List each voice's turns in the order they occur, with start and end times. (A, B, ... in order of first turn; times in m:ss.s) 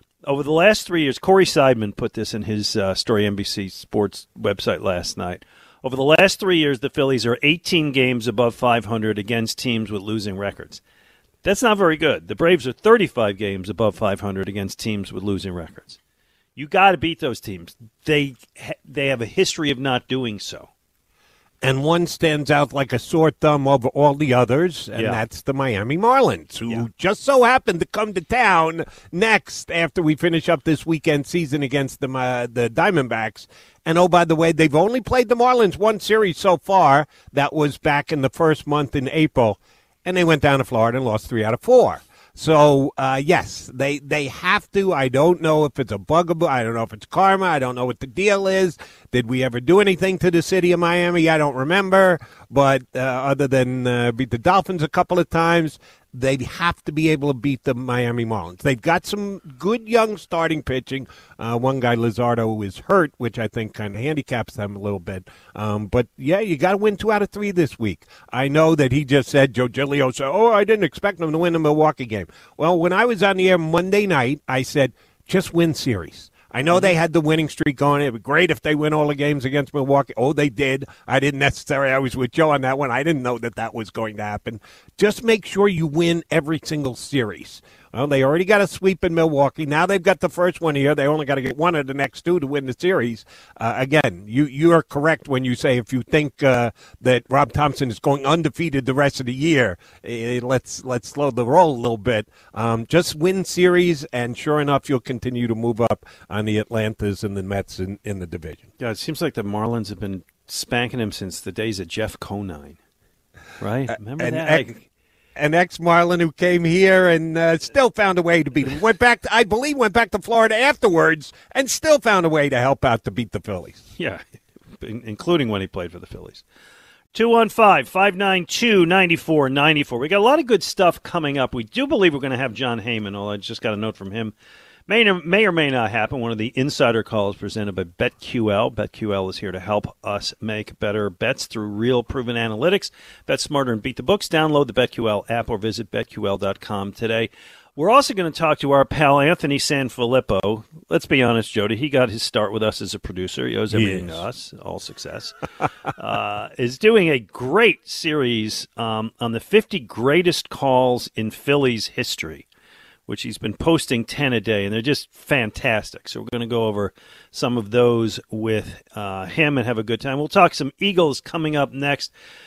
0:00.3-0:10.8 A
0:11.4-0:16.0 A
0:16.6-0:20.7 A
0:21.6-1:48.6 B
0:25.0-0:25.2 A
1:48.8-1:52.8 A
1:53.6-1:54.8 A
1:54.1-1:54.8 B
1:55.4-2:03.8 B
2:04.8-2:06.4 A
2:07.1-2:14.4 A
2:14.9-2:42.4 A
2:33.7-2:34.2 B
2:43.1-2:52.1 A